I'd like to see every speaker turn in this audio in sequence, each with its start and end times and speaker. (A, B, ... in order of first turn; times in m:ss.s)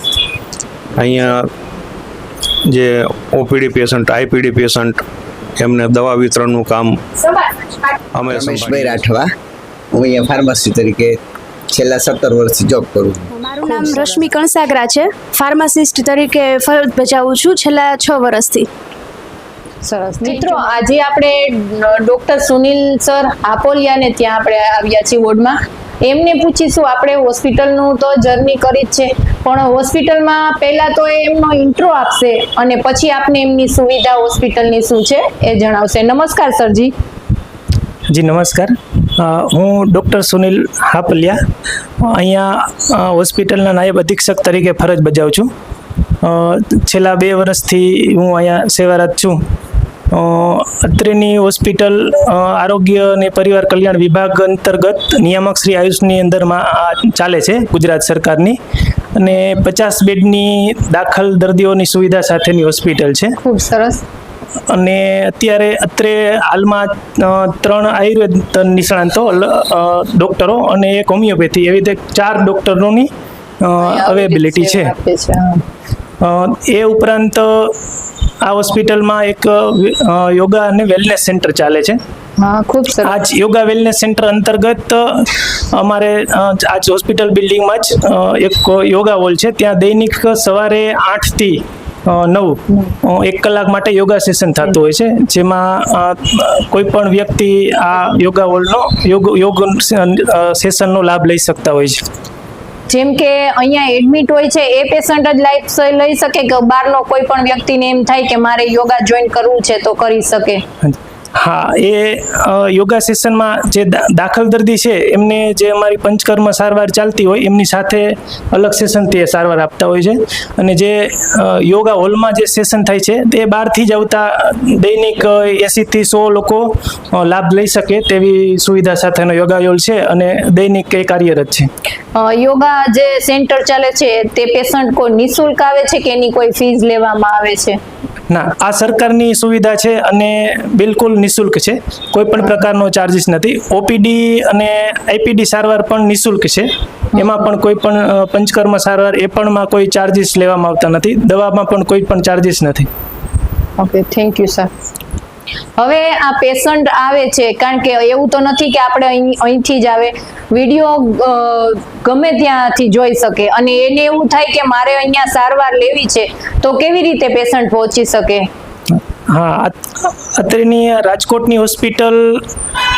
0:01.0-0:01.5 A
0:02.7-0:05.0 A
0:05.6-0:07.0 A
0:08.1-0:09.0 A
0:08.3-0:09.3 B
0:09.9-0:11.2 B
0:11.7-0:13.3 B
0:13.4-0:18.7 C
0:20.2-0:36.9 D
0:20.2-0:20.5 C
0:38.1-0:41.4 E
0:42.1-0:45.5 E
0:46.2-0:49.4 E
0:50.1-0:58.6 E
0:59.2-1:03.3 E
1:03.4-1:04.0 D
1:04.7-1:13.1 E
1:13.6-1:14.9 E
1:13.8-1:15.6 D
1:16.2-1:17.7 E
1:18.4-1:22.0 E
1:22.4-1:23.2 D
1:23.0-1:32.6 E
1:33.1-1:42.0 E
1:42.9-1:50.6 D
1:50.8-2:11.7 E
2:12.1-2:17.8 D
2:18.3-2:26.7 E
2:27.1-2:27.4 D
2:27.2-2:32.9 E
2:33.8-2:34.7 D
2:35.8-2:48.5 D
2:49.3-2:52.4 E